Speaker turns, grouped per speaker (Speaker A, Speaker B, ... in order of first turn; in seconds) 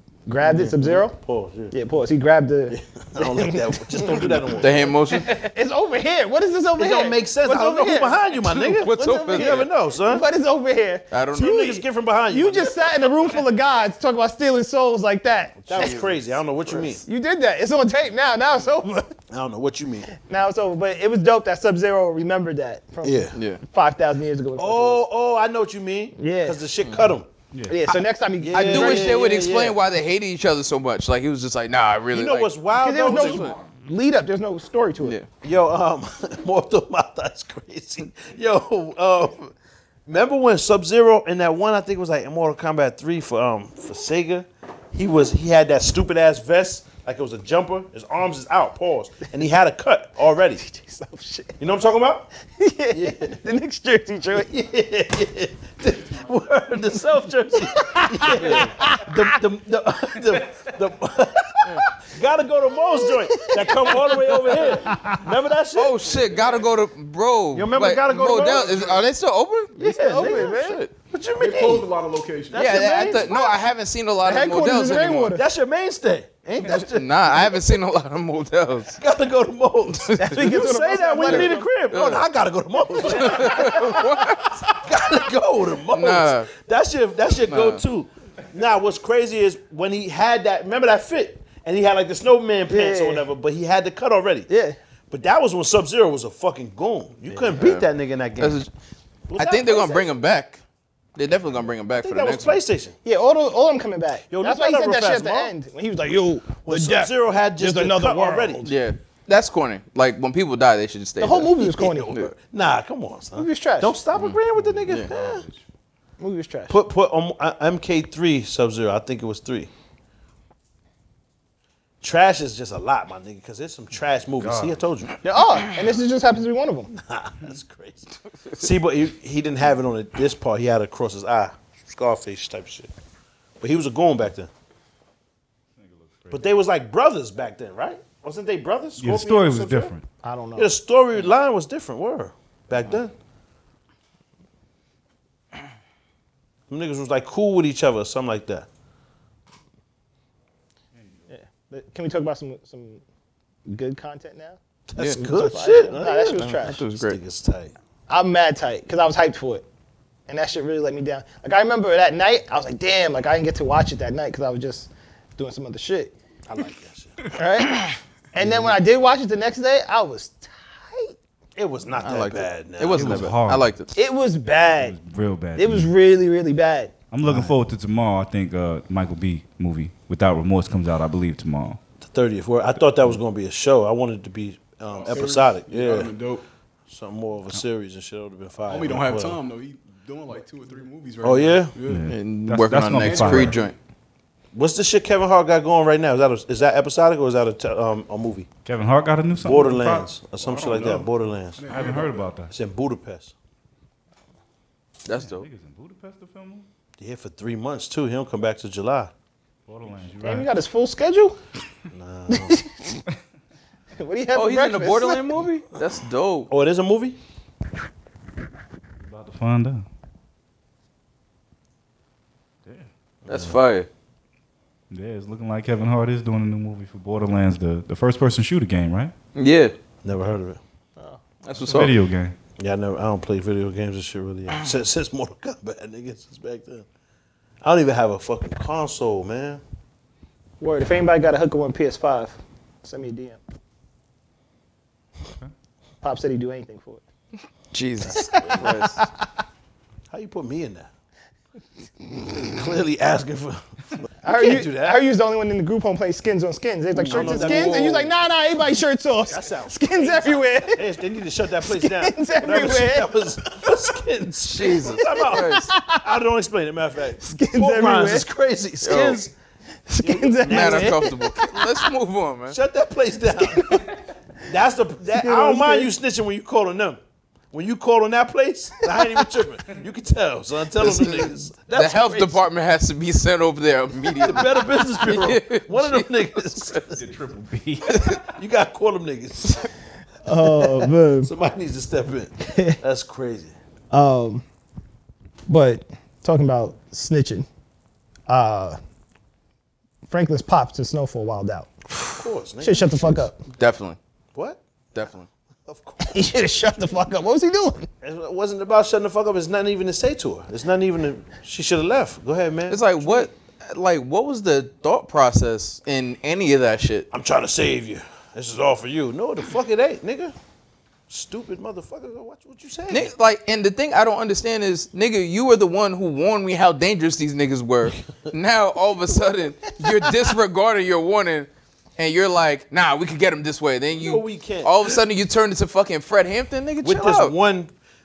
Speaker A: 0.3-1.1, 1.7-4.4, 5.1-8.2, 8.9-16.0, 16.7-19.2, 20.2-25.1, 26.2-26.6, 27.7-29.4, 32.8-35.1, 50.6-51.5, 52.6-54.5, 57.7-59.4, 62.9-64.1, 64.8-65.2, 69.8-70.8, 74.2-75.4, 80.2-81.7, 83.2-83.6, 92.7-93.2, 94.5-94.8, 103.0-108.7, 111.2-112.1, 113.3-114.0, 116.2-116.8, 125.2-126.9, 140.2-140.7, 151.3-153.0, 153.7-154.6, 155.2-156.8, 158.1-159.6, 160.3-166.1, 167.3-171.2, 173.9-175.0, 175.6-176.9, 210.2-211.4, 212.3-213.0, 214.0-215.3, 240.6-243.4, 246.0-247.0, 248.1-249.0, 254.2-260.9, 261.6-263.1, 265.0-266.0, 267.2-268.3, 269.9-271.8, 273.4-273.9, 275.1-275.9, 290.2-291.3, 292.4-292.8, 293.9-294.4, 295.5-297.5, 298.3-298.8, 300.1-301.7, 302.6-303.4, 306.0-307.9
Speaker B: 0.4-1.7, 2.7-5.0, 6.7-10.2, 11.3-13.1, 15.6-17.0, 19.3-20.1, 23.0-23.4, 24.6-27.3, 28.4-29.8, 32.1-33.6, 35.4-39.5, 40.1-50.6, 51.6-52.3, 52.9-53.4, 54.3-66.3, 67.5-69.0, 69.8-71.9, 72.5-73.3, 75.3-77.7, 79.0-94.5, 95.1-98.6, 99.3-100.2, 101.9-103.0, 104.3-105.5, 106.6-108.7, 111.6-115.4, 116.7-119.7, 122.0-125.1, 126.9-132.9, 133.6-134.5, 136.3-139.9, 140.6-143.1, 146.7-148.7, 154.9-157.7, 166.5-167.2, 168.4-168.7, 171.6-173.3, 177.2-177.5, 182.0-186.1, 186.9-189.4, 191.2-191.7, 194.5-198.5, 199.4-201.9, 202.5-203.3, 207.0-209.1, 211.9-212.6, 216.5-217.2, 223.2-223.6, 230.0-230.6, 232.6-236.8, 237.6-239.6, 248.1-248.7, 250.1-250.9, 252.3-255.0, 257.0-258.1, 259.2-269.3, 270.0-271.1, 272.5-273.8, 274.5-277.0, 277.5-282.4, 284.2-287.0, 288.1-289.7, 290.4-293.5, 302.2-303.3, 304.3-304.6, 305.6-306.9, 308.0-313.3, 317.1-320.3, 321.1-323.1, 333.9-335.0, 336.8-337.7
Speaker C: 4.6-5.3, 8.5-9.7, 11.1-11.6, 23.3-23.6, 28.5-32.5, 33.1-33.6, 65.7-70.9, 72.5-75.4, 76.7-79.0, 79.9-80.5, 81.3-82.2, 83.1-84.5, 85.9-86.5, 87.5-87.8, 97.5-97.8, 98.4-98.7, 99.3-100.6, 101.2-102.6, 108.6-111.6, 156.4-157.2, 172.0-173.9, 192.1-193.7, 205.1-205.4, 214.3-216.5, 223.3-223.9, 229.3-229.7, 231.4-231.9, 247.7-249.0, 257.1-257.8, 264.4-265.7, 268.8-269.2, 270.4-272.6, 280.8-286.1, 287.9-288.2, 303.6-304.0, 304.9-305.3, 312.7-317.1, 322.9-337.3
Speaker D: 71.4-73.1, 184.9-186.4, 188.7-192.1, 192.9-193.7, 200.5-201.1, 201.6-202.3
Speaker E: 114.3-115.6, 135.8-136.4, 139.0-140.0, 172.9-173.7, 174.8-175.9, 177.1-181.8, 191.8-193.6, 198.6-201.0, 201.7-202.5, 205.1-206.7, 209.7-210.5, 219.0-219.8, 224.9-229.1, 231.6-232.3, 287.0-288.1